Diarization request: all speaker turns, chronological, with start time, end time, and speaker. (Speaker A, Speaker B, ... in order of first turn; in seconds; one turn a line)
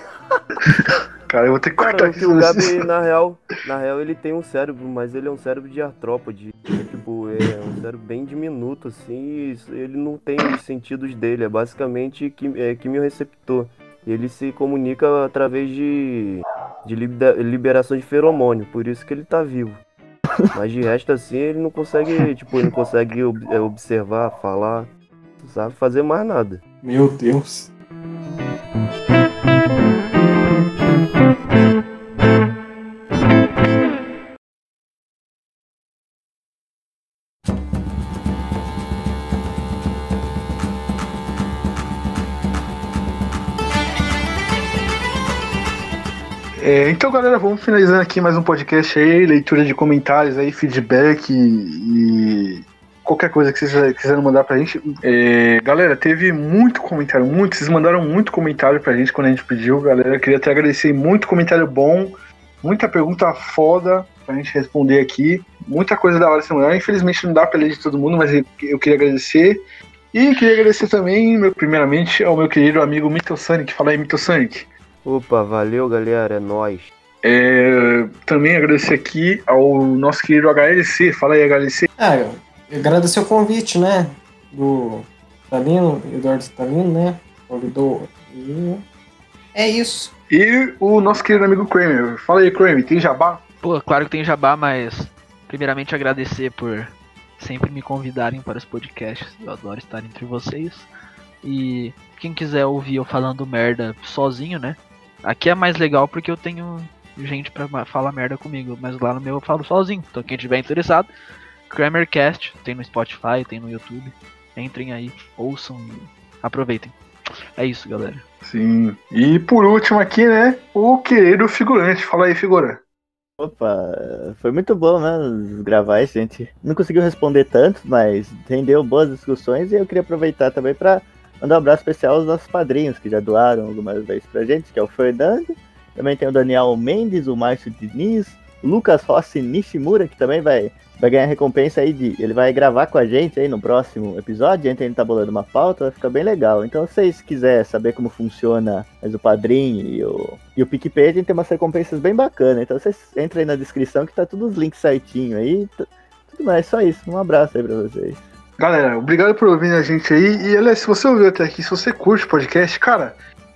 Speaker A: 0.6-2.8
Speaker B: 1.8-19.8
Speaker B: 20.5-26.6
Speaker C: 26.8-27.7
Speaker A: 46.6-69.6
Speaker A: 70.1-74.7
Speaker B: 75.0-76.9
Speaker A: 77.2-81.9
Speaker C: 82.0-88.8
Speaker C: 89.5-90.1
Speaker A: 90.3-93.4
Speaker D: 93.6-100.9
Speaker D: 101.4-111.1
Speaker D: 111.7-116.9
Speaker D: 117.6-118.2
Speaker A: 118.4-122.8
Speaker E: 123.4-158.2
Speaker A: 158.6-163.2